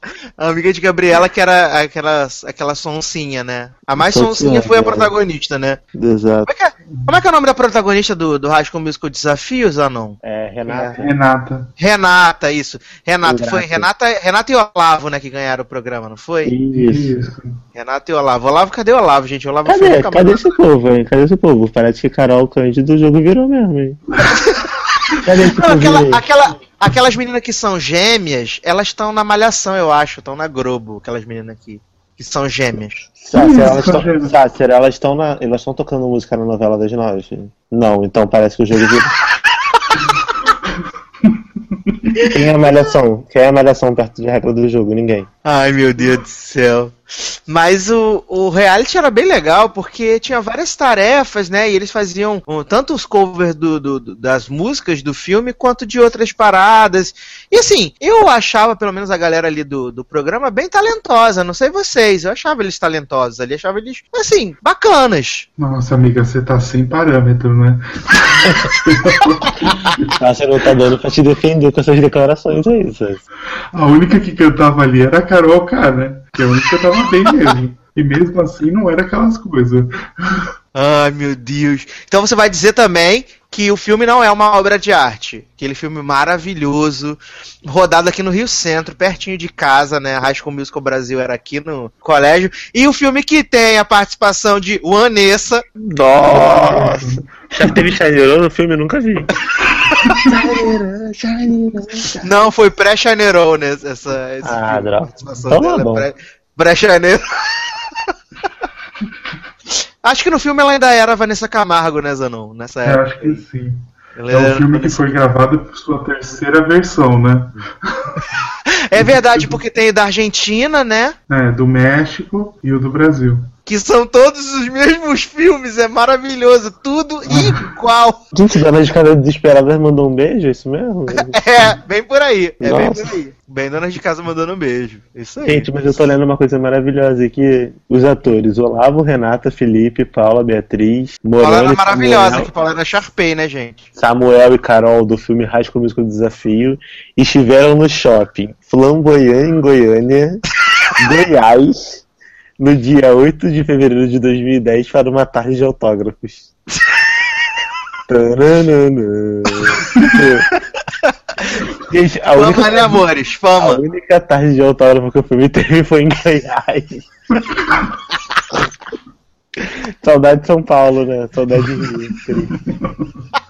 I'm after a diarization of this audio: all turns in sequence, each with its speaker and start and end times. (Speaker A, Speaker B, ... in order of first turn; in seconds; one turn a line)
Speaker A: 0.4-5.8
Speaker B: 4.0-5.1
Speaker B: 5.9-6.5
Speaker A: 6.5-10.2
Speaker B: 10.2-11.1
Speaker C: 10.8-11.7
Speaker A: 11.8-16.5
Speaker B: 13.2-13.9
Speaker B: 16.4-17.2
Speaker C: 16.7-17.6
Speaker A: 17.7-20.6
Speaker B: 19.6-24.0
Speaker B: 25.2-26.3
Speaker A: 25.4-33.0
Speaker B: 33.2-39.1
Speaker C: 33.4-34.3
Speaker C: 41.9-42.3
Speaker A: 42.2-42.7
Speaker B: 42.3-45.3
Speaker A: 45.4-65.5
Speaker C: 65.6-70.1
Speaker B: 70.2-73.2
Speaker C: 73.7-80.4
Speaker A: 80.7-95.6
Speaker B: 95.8-99.3
Speaker C: 96.3-97.8
Speaker C: 99.8-100.3
Speaker B: 100.2-102.3
Speaker A: 102.2-108.1
Speaker B: 104.4-106.1
Speaker A: 110.0-113.4
Speaker C: 112.8-118.3
Speaker A: 114.2-115.2
Speaker A: 118.7-121.1
Speaker C: 119.0-119.6
Speaker C: 121.3-123.5
Speaker A: 123.7-128.2
Speaker C: 127.3-127.6
Speaker B: 128.3-131.4
Speaker A: 131.1-136.0
Speaker B: 132.6-133.1
Speaker B: 135.4-142.5
Speaker A: 141.4-143.8
Speaker B: 143.9-150.4
Speaker B: 151.0-152.0
Speaker B: 152.6-156.5
Speaker B: 158.1-160.5
Speaker A: 161.0-161.7
Speaker B: 161.9-163.0
Speaker A: 162.3-163.8
Speaker B: 163.6-167.1
Speaker B: 169.6-172.6